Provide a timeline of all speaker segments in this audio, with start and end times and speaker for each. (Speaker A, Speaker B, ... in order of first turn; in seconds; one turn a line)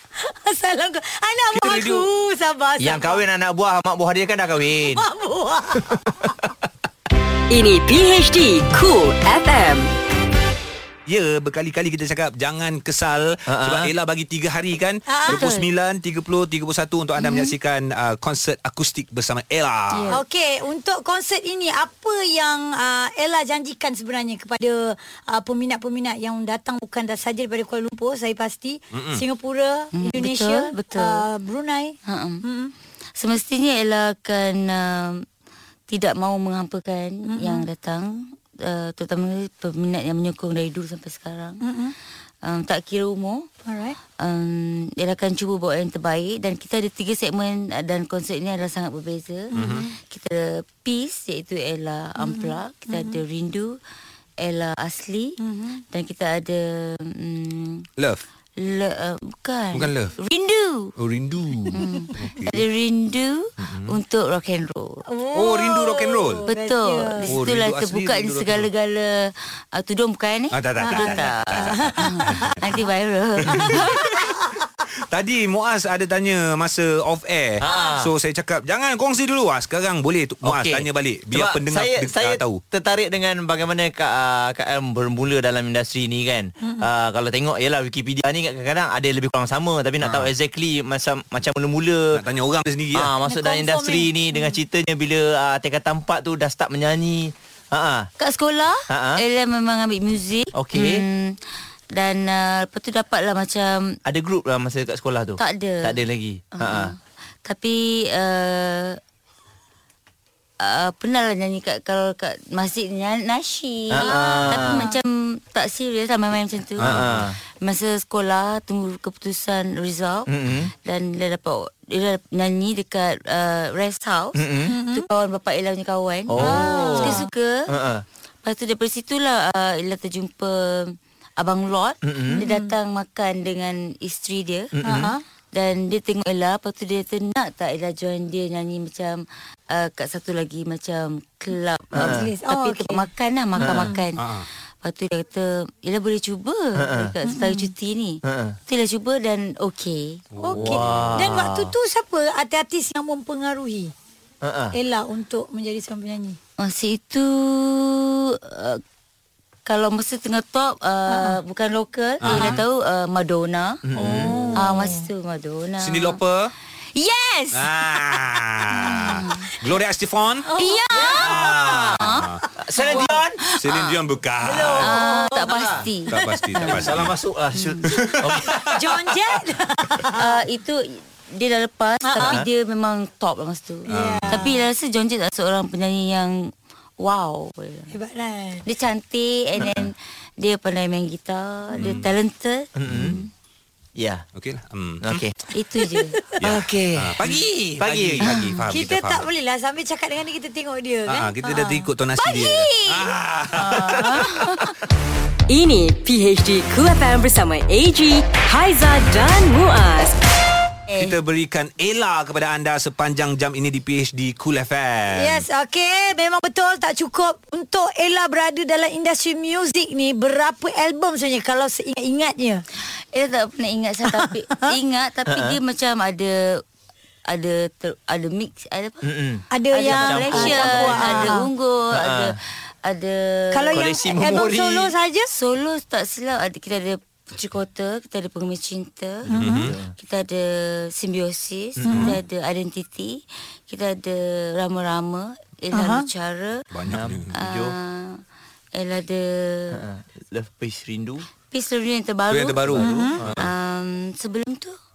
Speaker A: 0.2-3.2
Speaker B: 1.5-2.1
Speaker C: 2.8-5.0
Speaker A: 4.9-6.0
Speaker D: 7.5-9.9
Speaker B: 11.1-20.2
Speaker C: 13.5-13.9
Speaker A: 15.1-15.5
Speaker E: 15.3-15.6
Speaker A: 17.2-17.5
Speaker E: 19.9-20.2
Speaker A: 20.1-32.7
Speaker B: 28.9-29.2
Speaker E: 29.9-31.2
Speaker E: 32.0-32.4
Speaker E: 33.2-35.2
Speaker E: 35.9-41.6
Speaker A: 37.3-37.6
Speaker A: 41.6-41.9
Speaker E: 42.4-43.5
Speaker A: 43.6-44.0
Speaker E: 44.2-53.8
Speaker A: 49.5-49.9
Speaker B: 49.5-49.9
Speaker A: 52.2-53.2
Speaker E: 54.4-57.9
Speaker A: 55.4-55.8
Speaker E: 58.6-60.9
Speaker B: 59.7-60.1
Speaker B: 61.0-62.6
Speaker E: 61.7-65.0
Speaker B: 63.6-64.0
Speaker A: 65.1-67.3
Speaker B: 65.3-66.5
Speaker E: 66.5-74.0
Speaker B: 67.2-68.7
Speaker B: 70.5-72.8
Speaker A: 70.8-72.2
Speaker B: 73.4-74.2
Speaker A: 73.6-74.3
Speaker B: 75.1-82.6
Speaker C: 77.6-78.1
Speaker C: 80.4-92.2
Speaker B: 90.0-90.3
Speaker B: 92.1-93.1
Speaker C: 92.9-98.1
Speaker A: 93.2-94.5
Speaker E: 98.2-101.4
Speaker C: 98.9-99.2
Speaker C: 100.5-101.0
Speaker E: 101.9-104.0
Speaker C: 104.0-106.9
Speaker E: 105.4-106.0
Speaker E: 106.5-109.0
Speaker E: 110.6-117.0
Speaker C: 113.9-114.9
Speaker A: 114.0-115.0
Speaker B: 116.8-117.2
Speaker C: 116.8-117.4
Speaker E: 117.6-120.3
Speaker C: 120.3-120.7
Speaker E: 120.8-127.7
Speaker C: 124.3-124.8
Speaker A: 124.7-125.0
Speaker C: 126.3-128.0
Speaker A: 126.4-127.3
Speaker E: 128.4-134.7
Speaker C: 132.0-132.4
Speaker A: 132.3-132.7
Speaker C: 134.7-135.1
Speaker A: 134.8-135.2
Speaker E: 135.5-144.2
Speaker C: 141.9-142.3
Speaker A: 141.9-143.0
Speaker B: 143.6-144.5
Speaker C: 143.6-143.9
Speaker E: 144.8-150.2
Speaker C: 146.8-147.1
Speaker A: 147.2-147.7
Speaker C: 148.2-148.6
Speaker B: 150.3-151.2
Speaker A: 150.4-153.9
Speaker C: 150.5-151.7
Speaker C: 154.4-154.8
Speaker A: 154.7-156.4
Speaker E: 156.6-158.8
Speaker E: 159.7-163.8
Speaker A: 161.1-161.4
Speaker B: 162.2-162.6
Speaker A: 162.3-162.6
Speaker C: 163.8-164.6
Speaker A: 164.0-165.1
Speaker E: 164.5-166.2
Speaker B: 165.8-166.5
Speaker E: 166.9-167.8
Speaker B: 167.5-170.5
Speaker A: 168.8-169.1
Speaker E: 168.9-169.4
Speaker A: 170.5-171.2
Speaker E: 170.6-172.3
Speaker C: 170.9-172.0
Speaker B: 171.2-172.4
Speaker C: 172.6-173.4
Speaker A: 172.8-173.1
Speaker E: 172.9-173.9
Speaker B: 173.6-174.9
Speaker A: 174.4-176.7
Speaker E: 174.8-176.9
Speaker C: 175.4-175.8
Speaker B: 176.1-177.2
Speaker C: 176.8-178.7
Speaker E: 177.6-177.8
Speaker B: 177.9-178.8
Speaker A: 178.7-180.4
Speaker E: 180.2-187.9
Speaker A: 182.0-182.4
Speaker C: 182.2-182.5
Speaker B: 183.9-184.5
Speaker A: 183.9-184.5
Speaker A: 187.9-188.6
Speaker E: 188.6-193.2
Speaker B: 191.8-192.1
Speaker C: 192.8-193.2
Speaker B: 192.9-193.2
Speaker C: 194.0-194.2
Speaker B: 194.3-195.2
Speaker C: 195.0-195.3
Speaker E: 195.5-196.2
Speaker A: 195.8-196.3
Speaker B: 196.4-199.2
Speaker C: 196.4-198.3
Speaker A: 198.7-201.8
Speaker B: 201.1-204.4
Speaker E: 202.2-203.0
Speaker E: 203.6-204.7
Speaker A: 203.8-204.1
Speaker D: 205.5-210.2
Speaker E: 210.9-211.2
Speaker B: 210.9-215.4
Speaker A: 215.1-222.6
Speaker E: 223.1-226.6
Speaker C: 225.3-225.6
Speaker E: 227.3-229.1
Speaker C: 229.0-231.4
Speaker A: 229.5-231.5
Speaker E: 229.7-233.9
Speaker C: 231.9-232.4
Speaker A: 233.5-235.3
Speaker C: 233.7-234.9
Speaker E: 235.3-239.3
Speaker A: 239.3-239.7
Speaker B: 239.3-239.7
Speaker C: 239.4-239.9
Speaker E: 239.9-246.7
Speaker C: 241.8-242.1
Speaker A: 241.9-242.2
Speaker A: 245.7-246.1
Speaker B: 246.7-247.3
Speaker C: 246.9-247.8
Speaker E: 247.3-248.2
Speaker E: 248.7-249.8
Speaker C: 249.7-251.2
Speaker E: 251.5-254.8
Speaker B: 252.3-253.5
Speaker A: 252.8-253.2
Speaker C: 252.8-253.4